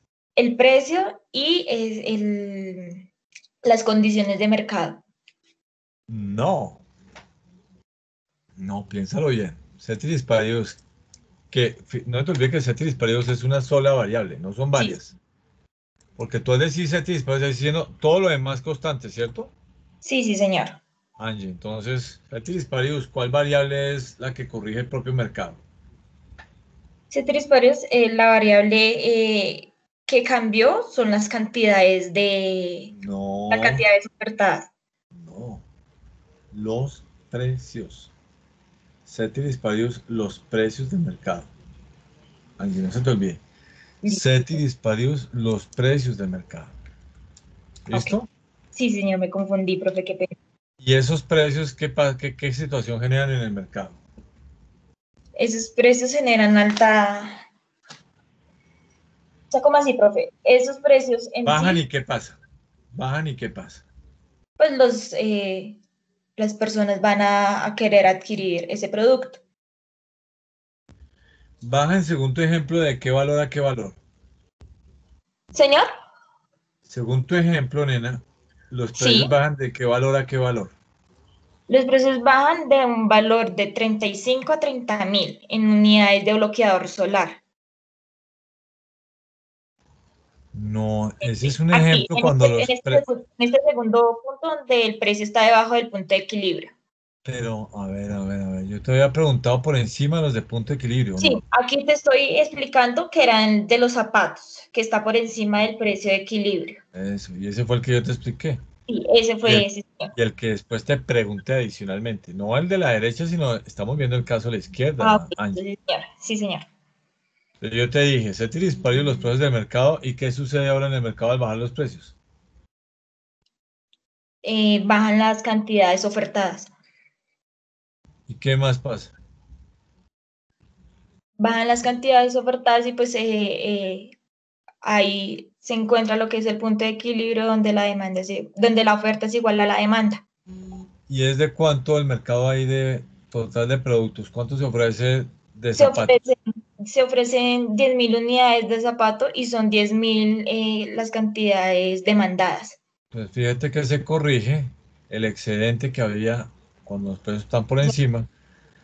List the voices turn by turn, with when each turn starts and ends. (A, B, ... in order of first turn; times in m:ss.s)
0:00.4-0:03.0 A
0:03.6-0:05.0 A
0:06.1-0:06.8 B
0:08.6-0:10.8 B
0:11.5-0:15.2 B
0:16.2-0:19.5 B
0:20.0-0:20.8 A
0:21.2-0:25.6 B
0:27.1-0:32.9 A
0:32.9-0:33.9 B
0:33.5-0:34.7 A
0:35.1-0:35.6 B
0:36.5-0:38.1 B
0:39.1-0:41.5 B
0:42.6-0:43.4 B
0:44.0-0:44.6 A
0:44.1-0:46.7 B
0:47.9-0:48.3 B
0:47.9-0:48.2 A
0:48.8-0:50.4 A
0:50.8-0:54.0 B
0:55.4-0:57.4 A
0:59.5-1:01.8 A
1:01.4-1:02.4 B
1:02.9-1:03.8 B
1:04.6-1:05.8 A
1:06.4-1:09.4 A
1:11.6-1:14.0 B
1:15.5-1:15.9 A
1:16.9-1:20.7 B
1:19.0-1:19.3 A
1:21.7-1:27.4 A
1:30.5-1:33.0 B
1:31.2-1:36.7 A
1:37.2-1:41.4 B
1:41.2-1:46.8 A
1:46.9-1:48.6 B
1:48.9-1:50.1 A
1:49.4-1:55.6 B
1:55.0-1:56.7 A
1:57.6-2:02.1 B
2:04.4-2:06.7 A
2:08.3-2:09.1 B
2:11.4-2:14.1 A
2:14.8-2:20.2 A
2:21.1-2:26.2 B
2:25.8-2:32.8 A
2:33.1-2:38.3 B